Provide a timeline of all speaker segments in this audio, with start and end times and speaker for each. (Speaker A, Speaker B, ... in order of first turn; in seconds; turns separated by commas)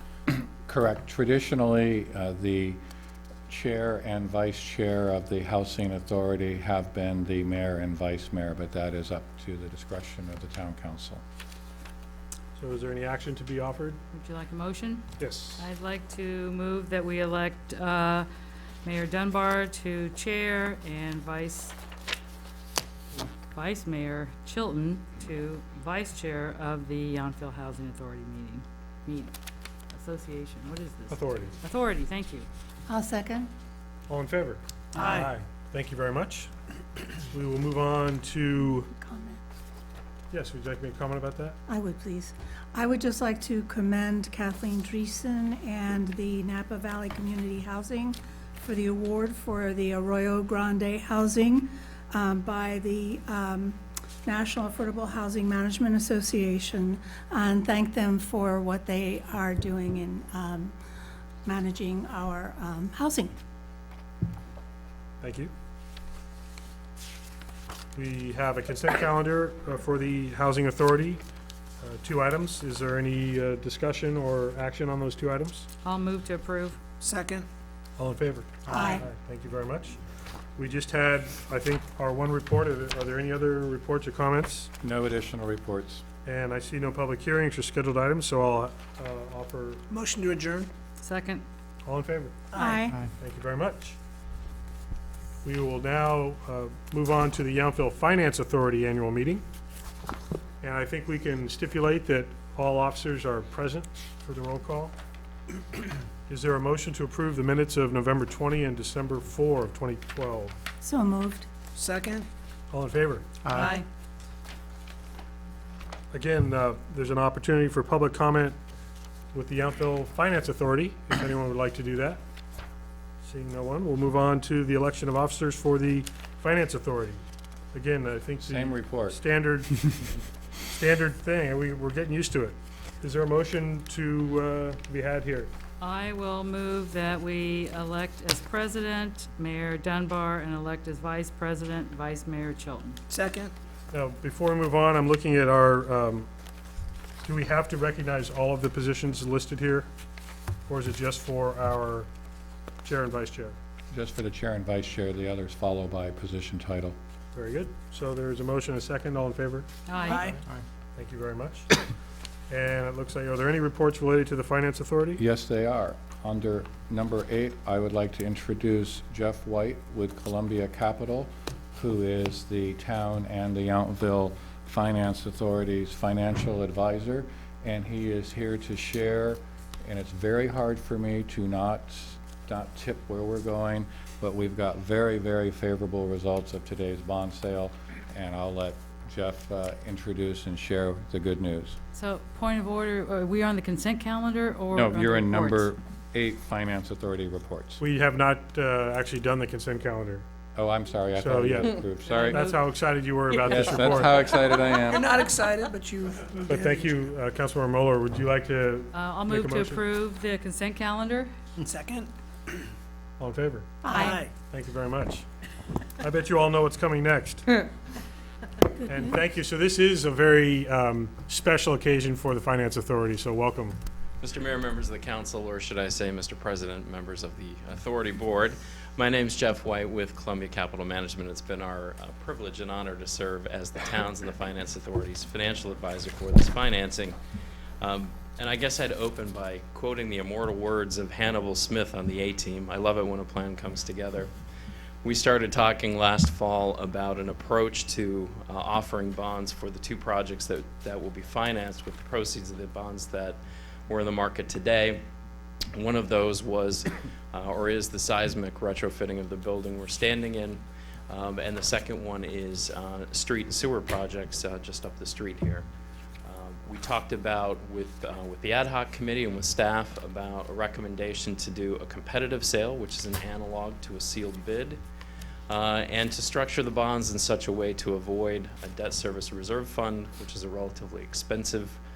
Speaker A: 0.3-2.8, Speaker A: 3.5-11.2, Speaker B: 12.6-14.0, Speaker C: 14.1-18.3, Speaker B: 15.2-15.7, Speaker C: 18.8-21.8, Speaker C: 23.1-29.3, Speaker C: 29.9-32.5, Speaker B: 31.1-31.6, Speaker D: 32.9-33.5, Speaker B: 34.1-36.5, Speaker E: 34.9-35.3, Speaker B: 37.3-38.9, Speaker D: 38.9-39.4, Speaker B: 40.3-41.6, Speaker D: 41.7-60.7, Speaker D: 61.5-63.3, Speaker B: 65.2-65.5, Speaker B: 68.0-71.2, Speaker B: 71.8-75.7, Speaker C: 75.8-76.8, Speaker E: 77.0-77.5, Speaker B: 78.0-80.0, Speaker D: 78.7-79.0, Speaker B: 80.6-84.7, Speaker A: 84.8-86.0, Speaker B: 86.2-89.8, Speaker E: 89.9-90.7, Speaker C: 91.0-91.5, Speaker B: 91.9-92.6, Speaker D: 92.5-93.0, Speaker B: 93.2-94.0, Speaker B: 95.4-99.4, Speaker B: 100.6-104.9, Speaker B: 106.3-110.5, Speaker D: 110.8-111.5, Speaker E: 111.8-112.3, Speaker B: 112.7-113.3, Speaker E: 113.5-113.9, Speaker B: 116.1-118.6, Speaker B: 119.3-122.2, Speaker B: 123.2-127.2, Speaker B: 127.7-130.0, Speaker A: 128.5-129.2, Speaker B: 130.7-135.5, Speaker C: 135.8-143.0, Speaker E: 143.1-143.5, Speaker B: 143.9-146.3, Speaker B: 147.2-149.9, Speaker B: 150.7-152.1, Speaker B: 152.8-153.6, Speaker A: 153.9-157.0, Speaker B: 157.3-159.7, Speaker C: 159.9-160.3, Speaker E: 160.0-160.4, Speaker B: 160.9-161.7, Speaker B: 162.5-165.2, Speaker A: 165.2-191.8, Speaker C: 191.9-195.7, Speaker A: 194.7-197.8, Speaker B: 197.8-200.2, Speaker A: 200.6-202.4, Speaker B: 201.2-204.2, Speaker C: 202.1-202.6, Speaker A: 203.5-205.2, Speaker E: 204.4-206.8, Speaker B: 206.5-209.8, Speaker C: 208.9-211.3, Speaker E: 211.6-212.7, Speaker B: 213.2-213.9, Speaker D: 213.8-214.2, Speaker E: 213.9-214.3, Speaker B: 214.5-215.2, Speaker B: 216.0-217.5, Speaker B: 218.9-223.8, Speaker F: 224.2-237.2, Speaker F: 237.8-244.3, Speaker F: 245.0-255.0, Speaker F: 255.7-265.7, Speaker F: 266.3-274.8, Speaker F: 275.5-281.8